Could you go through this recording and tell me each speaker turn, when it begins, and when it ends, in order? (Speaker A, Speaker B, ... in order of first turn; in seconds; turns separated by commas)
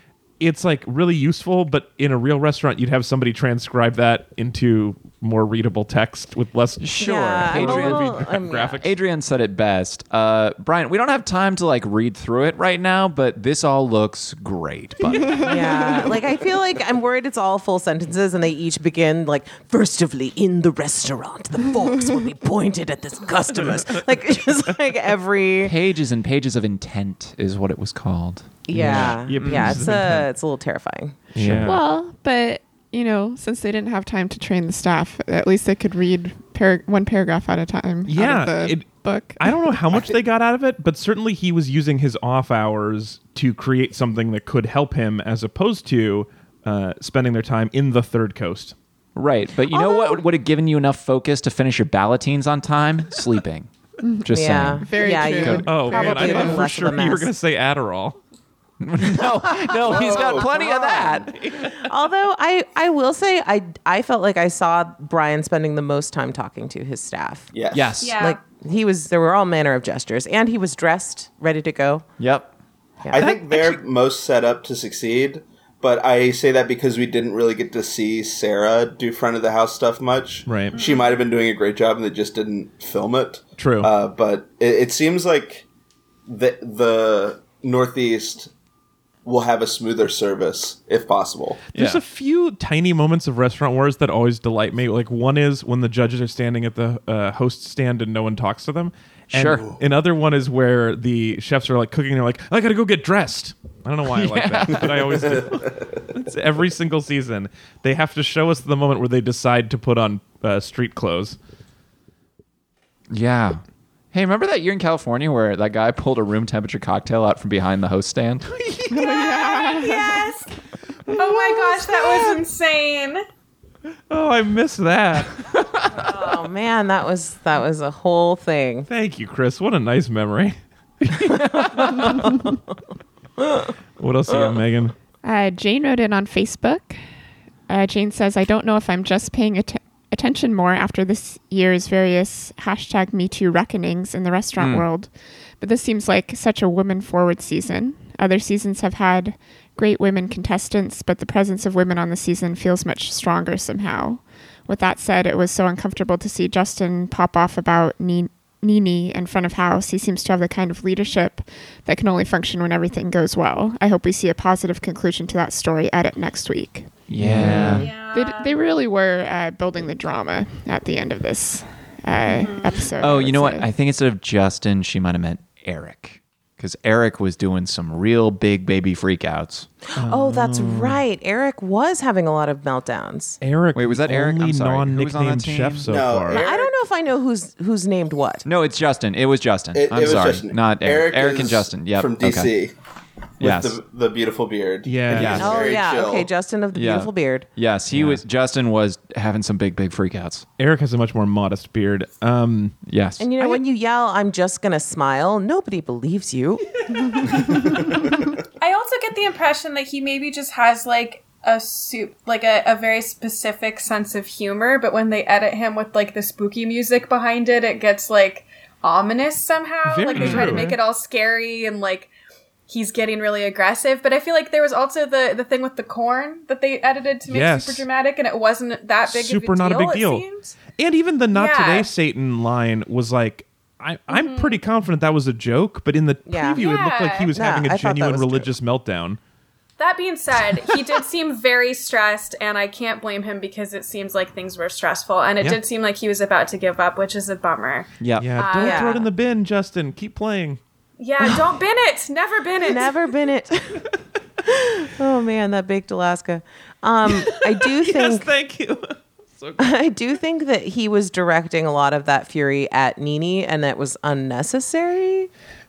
Speaker A: 0.4-8.9, Speaker B: 6.8-16.0, Speaker C: 7.0-8.8, Speaker C: 15.4-25.7, Speaker B: 25.6-29.8, Speaker C: 28.7-31.2, Speaker A: 28.7-30.3, Speaker A: 31.3-31.8, Speaker B: 31.4-31.7, Speaker D: 31.6-40.1, Speaker A: 38.1-48.7, Speaker B: 49.1-53.7, Speaker C: 49.7-50.2, Speaker D: 54.0-57.1, Speaker B: 54.2-55.6, Speaker C: 54.3-57.3, Speaker A: 55.6-58.1, Speaker B: 58.8-61.3, Speaker C: 59.7-67.5, Speaker E: 59.8-61.2, Speaker A: 61.3-61.9, Speaker E: 67.5-68.0, Speaker B: 67.7-68.2, Speaker F: 68.0-68.4, Speaker C: 68.1-72.0, Speaker B: 72.2-72.5, Speaker E: 73.1-85.6, Speaker A: 73.2-73.8, Speaker A: 80.5-80.8, Speaker F: 80.7-81.1, Speaker A: 83.6-83.9, Speaker E: 86.3-88.5, Speaker E: 89.2-91.6, Speaker A: 91.7-111.4, Speaker B: 91.7-92.0, Speaker B: 99.3-99.8, Speaker B: 104.1-105.3, Speaker E: 104.8-105.8, Speaker B: 113.1-118.5, Speaker A: 118.5-119.2, Speaker D: 118.9-120.4, Speaker F: 119.6-120.3, Speaker F: 121.1-123.2, Speaker D: 121.2-122.2, Speaker A: 124.1-125.4, Speaker C: 126.0-128.9, Speaker A: 128.9-132.3, Speaker B: 131.4-131.9, Speaker A: 134.0-134.9, Speaker D: 135.2-137.0, Speaker D: 137.7-173.7, Speaker B: 144.6-144.8, Speaker B: 167.1-167.9, Speaker A: 167.2-167.9, Speaker F: 167.7-168.5, Speaker F: 172.4-172.8, Speaker B: 173.0-179.7, Speaker A: 180.0-181.0, Speaker C: 180.0-183.4, Speaker A: 183.4-186.4, Speaker B: 183.7-185.9, Speaker E: 185.9-186.7, Speaker C: 186.3-188.4, Speaker B: 188.4-192.5, Speaker E: 189.7-192.7, Speaker B: 193.4-193.8, Speaker E: 193.4-196.3, Speaker A: 194.8-195.6, Speaker B: 195.1-195.5, Speaker C: 195.3-197.5, Speaker B: 196.7-200.4, Speaker A: 197.9-198.2, Speaker A: 200.6-202.8, Speaker B: 202.9-203.3, Speaker C: 203.2-206.7, Speaker F: 208.6-222.1, Speaker A: 219.8-220.8, Speaker F: 222.7-230.6, Speaker A: 227.3-227.8, Speaker A: 229.1-239.2, Speaker F: 231.3-231.9, Speaker F: 234.1-234.6, Speaker C: 236.3-236.6, Speaker F: 236.5-237.3, Speaker C: 237.3-238.5, Speaker F: 239.8-249.0, Speaker B: 248.0-248.3, Speaker A: 248.2-250.6, Speaker C: 248.6-249.1, Speaker F: 251.0-252.9, Speaker C: 252.6-253.9, Speaker C: 254.4-258.3, Speaker A: 257.2-259.7, Speaker C: 259.6-265.3